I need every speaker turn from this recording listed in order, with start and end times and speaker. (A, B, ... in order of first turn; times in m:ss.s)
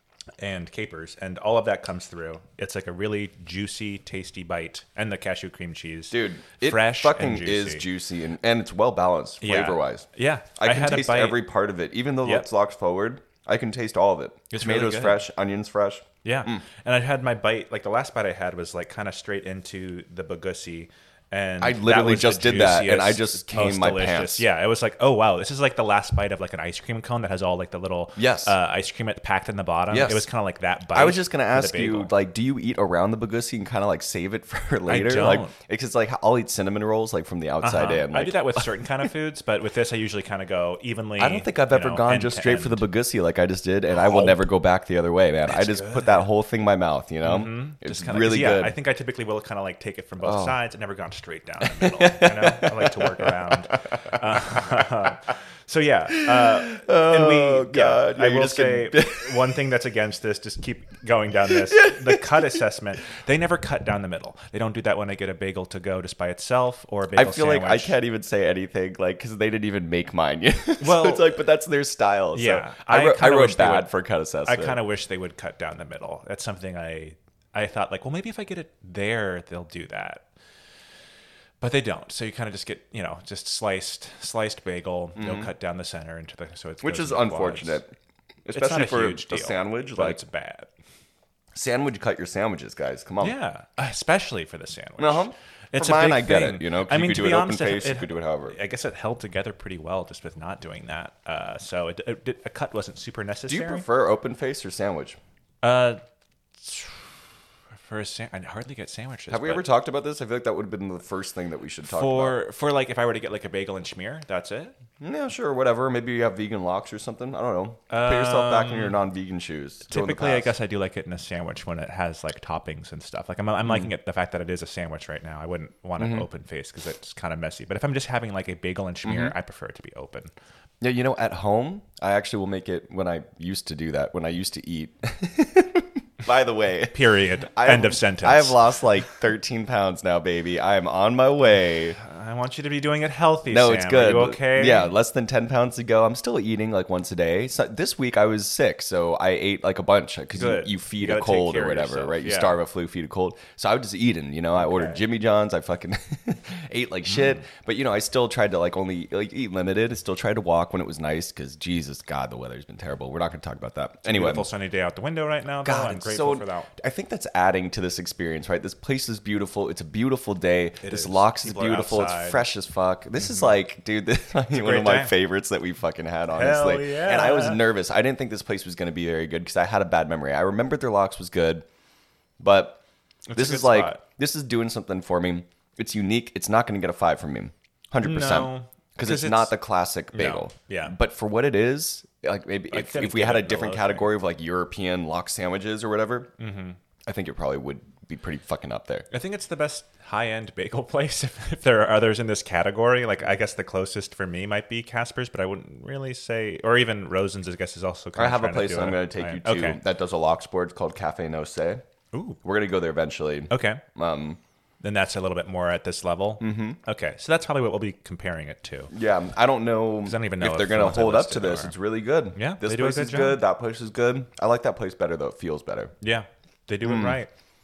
0:00.4-0:07.8 A
0:06.1-0:16.6 B
0:09.4-0:11.4 A
0:14.5-0:15.2 A
0:16.2-0:32.1 A
0:21.6-0:24.4 B
0:28.2-0:28.5 B
0:29.9-0:30.2 B
0:30.9-0:38.8 B
0:34.9-0:35.5 A
0:37.6-0:42.9 A
0:41.2-0:48.7 B
0:43.9-0:44.4 A
0:45.4-0:46.3 A
0:47.2-1:08.0 A
0:50.2-0:50.6 B
0:51.6-0:54.2 B
0:56.1-0:59.6 B
1:01.5-1:02.6 B
1:07.1-1:14.8 B
1:10.8-1:11.4 A
1:12.3-1:13.9 A
1:14.4-1:20.2 A
1:21.6-1:27.8 A
1:25.2-1:25.5 B
1:26.8-1:27.9 B
1:28.4-1:30.2 B
1:28.5-1:30.7 A
1:31.5-1:33.3 B
1:33.2-1:43.8 A
1:35.0-1:38.6 B
1:43.5-1:45.2 B
1:45.6-1:46.0 A
1:46.6-1:47.1 A
1:47.7-1:49.6 A
1:49.3-1:52.4 B
1:51.8-1:54.7 A
1:55.0-2:00.5 B
1:57.9-1:59.0 A
1:59.9-2:10.3 A
2:06.0-2:06.2 B
2:09.0-2:09.3 B
2:10.8-2:22.0 B
2:16.9-2:18.6 A
2:22.0-2:24.9 A
2:23.5-2:44.5 B
2:30.3-2:32.6 A
2:34.6-2:35.0 A
2:37.1-2:37.4 A
2:44.0-2:46.7 A
2:45.6-3:01.6 B
2:50.8-2:52.4 A
2:53.2-2:53.5 A
2:54.5-2:55.1 A
2:56.3-2:57.6 A
3:02.4-3:02.8 B
3:03.3-3:04.0 A
3:03.3-3:16.3 B
3:08.0-3:09.6 A
3:10.1-3:10.9 A
3:12.7-3:14.1 A
3:16.4-3:16.8 A
3:17.0-3:19.1 B
3:19.1-3:29.8 A
3:28.2-3:31.8 B
3:32.1-3:32.4 A
3:32.4-3:34.4 B
3:33.5-3:33.8 A
3:34.8-3:38.9 A
3:36.4-3:36.8 B
3:38.9-3:45.9 B
3:40.0-3:41.7 A
3:42.3-3:43.4 A
3:46.0-3:47.3 A
3:46.8-3:47.2 B